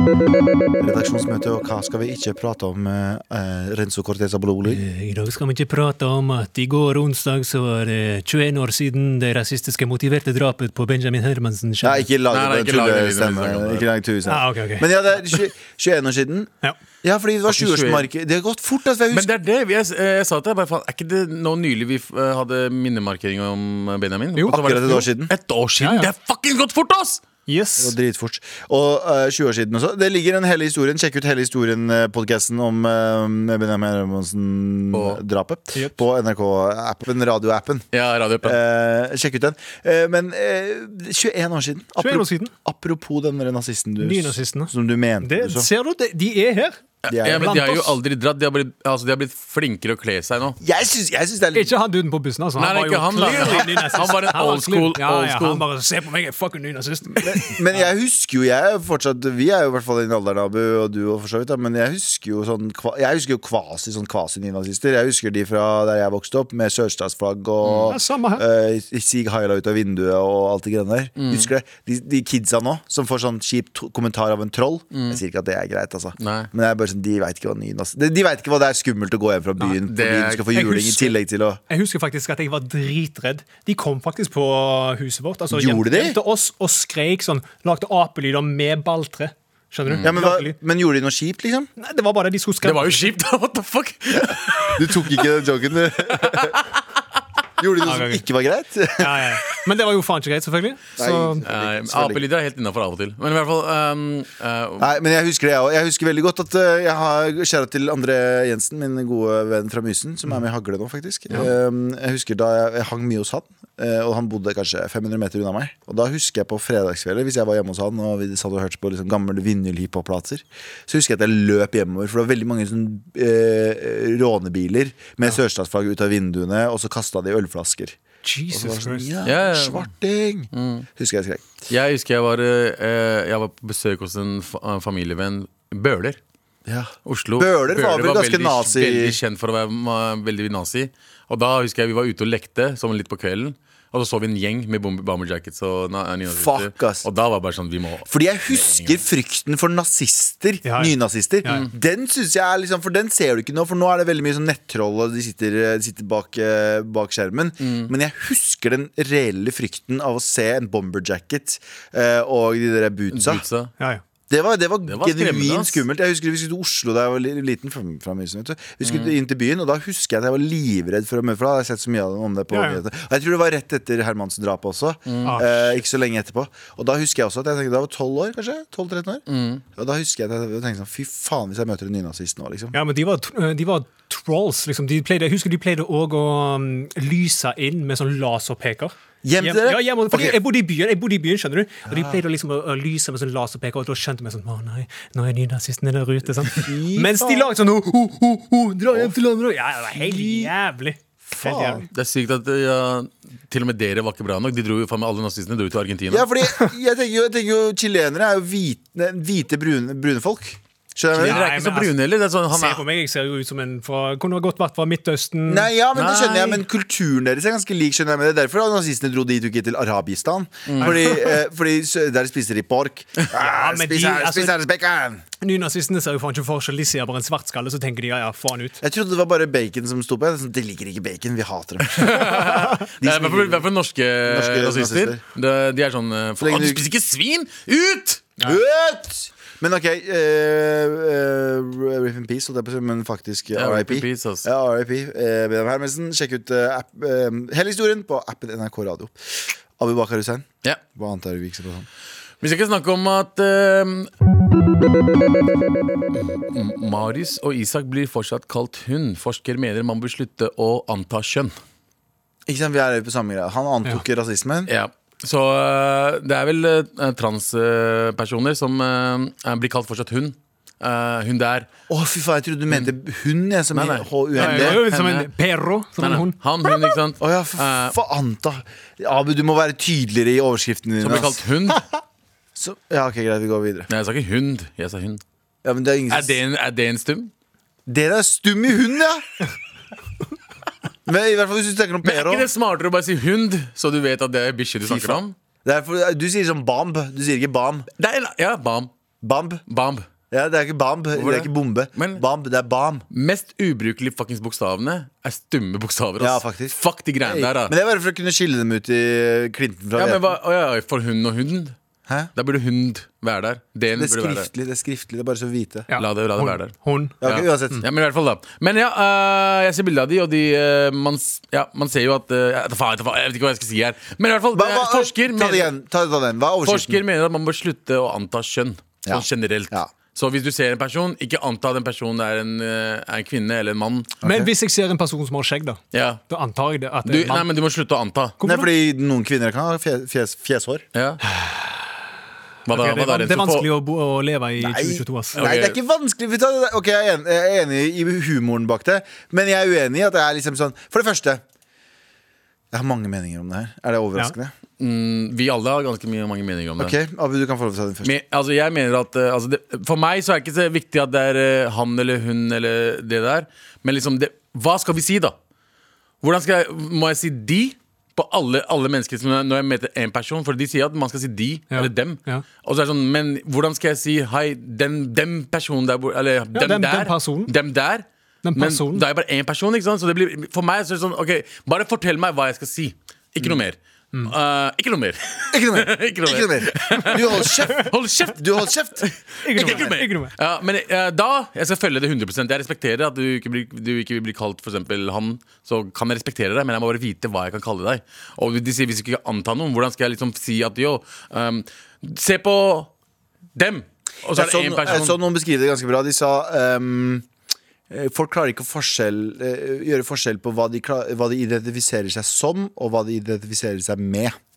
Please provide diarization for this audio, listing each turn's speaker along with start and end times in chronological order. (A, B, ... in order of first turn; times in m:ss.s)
0:00.8-0:04.8 A
0:04.6-0:12.0 B
0:11.8-0:16.5 A
0:12.3-0:13.9 C
0:14.2-0:14.9 B
0:17.0-0:19.3 A
0:17.5-0:18.1 C
0:19.1-0:27.2 C
0:24.5-0:25.3 A
0:25.8-0:26.1 B
0:27.5-0:27.9 B
0:27.8-0:37.8 A
0:34.9-0:35.2 C
0:37.9-0:38.6 C
0:38.4-0:45.7 A
0:42.0-0:42.5 B
0:44.0-0:46.8 B
0:47.0-0:50.6 C
0:47.1-0:47.7 A
0:47.3-0:47.9 B
0:50.6-0:51.7 A
0:51.5-0:57.6 B
0:52.6-0:55.6 C
0:57.1-1:21.6 A
1:07.6-1:08.0 C
1:07.9-1:08.4 B
1:11.2-1:11.5 C
1:14.9-1:15.2 C
1:16.2-1:16.5 C
1:19.6-1:21.1 C
1:21.7-1:30.6 B
1:25.5-1:26.2 A
1:29.9-1:30.1 C
1:30.0-1:31.7 A
1:31.8-1:33.2 B
1:32.6-1:35.2 C
1:34.1-1:36.6 A
1:36.1-1:36.6 C
1:37.6-1:39.2 A
1:37.8-1:38.2 B
1:39.0-1:41.4 B
1:41.0-1:42.2 A
1:41.4-1:44.9 C
1:44.8-2:08.0 A
2:08.2-2:09.1 B
2:08.5-2:11.6 A
2:09.2-2:09.9 C
2:10.5-2:10.9 C
2:11.7-2:16.2 C
2:16.6-2:19.2 A
2:17.0-2:29.0 C
2:26.3-2:27.0 A
2:28.1-2:43.4 A
2:30.6-2:31.6 B
2:37.6-2:37.9 C
2:43.1-2:43.7 C
2:44.3-3:02.8 A
2:44.9-2:45.8 C
2:48.8-2:49.1 C
2:52.5-2:52.8 B
2:55.1-2:55.4 C
2:55.2-2:55.7 B
2:59.3-2:59.6 C
3:02.7-3:17.9 B
3:09.2-3:10.4 A
3:11.9-3:12.2 A
3:16.4-3:20.5 A
3:18.9-3:21.9 B
3:21.3-3:21.8 A
3:21.9-3:26.3 C
3:26.1-3:31.4 A
3:31.1-3:32.8 C
3:31.2-3:31.9 B
3:32.5-3:35.7 B
3:35.4-3:45.2 A
3:35.9-3:36.6 C
3:40.7-3:41.0 C
3:40.8-3:41.3 B
3:43.3-3:44.5 B
3:45.4-3:48.8 B
3:48.8-3:53.6 A
3:51.9-3:58.3 C
3:54.2-3:55.2 A
3:56.4-3:56.8 A
3:58.4-4:11.9 A
4:03.5-4:04.5 C
4:12.4-4:14.1 C
4:16.2-4:21.5 C
4:22.5-4:24.7 A
4:24.7-4:31.7 C
4:31.9-4:34.8 A
4:33.7-4:35.3 C
4:34.4-4:36.4 B
4:36.0-4:38.0 C
4:37.2-4:41.4 A
4:41.0-4:41.8 C
4:42.6-4:43.9 A
4:43.9-4:45.2 C
4:45.6-4:46.4 A
4:46.1-4:47.3 C
4:47.9-4:49.2 A
4:51.0-4:52.5 A
4:52.0-4:55.3 C
4:54.8-4:57.9 A
4:58.0-4:58.9 C
4:59.2-4:59.6 A
4:59.7-5:00.1 C
5:00.3-5:03.0 A
5:01.1-5:02.2 C
5:03.1-5:07.7 C
5:06.2-5:10.3 A
5:10.0-5:11.8 C
5:12.4-5:14.5 C
5:13.9-5:15.9 A
5:15.9-5:17.1 B
5:16.0-5:25.7 C
5:17.2-5:17.8 A
5:24.5-5:27.0 A
5:26.6-5:34.2 C
5:29.0-5:29.9 A
5:34.2-5:34.5 A
5:34.2-5:37.5 B
5:35.9-5:36.2 C
5:37.0-5:38.4 C
5:38.4-5:38.7 B
5:38.4-5:40.8 A
5:40.9-5:41.2 C
5:41.2-5:41.9 B
5:42.6-5:43.7 C
5:42.7-5:45.4 B
5:44.6-5:51.4 A
5:45.3-5:45.8 C
5:52.7-5:54.5 A
5:54.8-5:56.9 C
5:56.8-5:58.1 A
5:58.0-6:05.4 C
6:06.2-6:42.9 C
6:11.7-6:12.4 B
6:16.5-6:17.5 B
6:18.4-6:19.0 B
6:25.5-6:29.9 A
6:29.4-6:30.3 B
6:43.5-6:45.2 C
6:44.3-6:47.2 A
6:47.9-6:54.4 A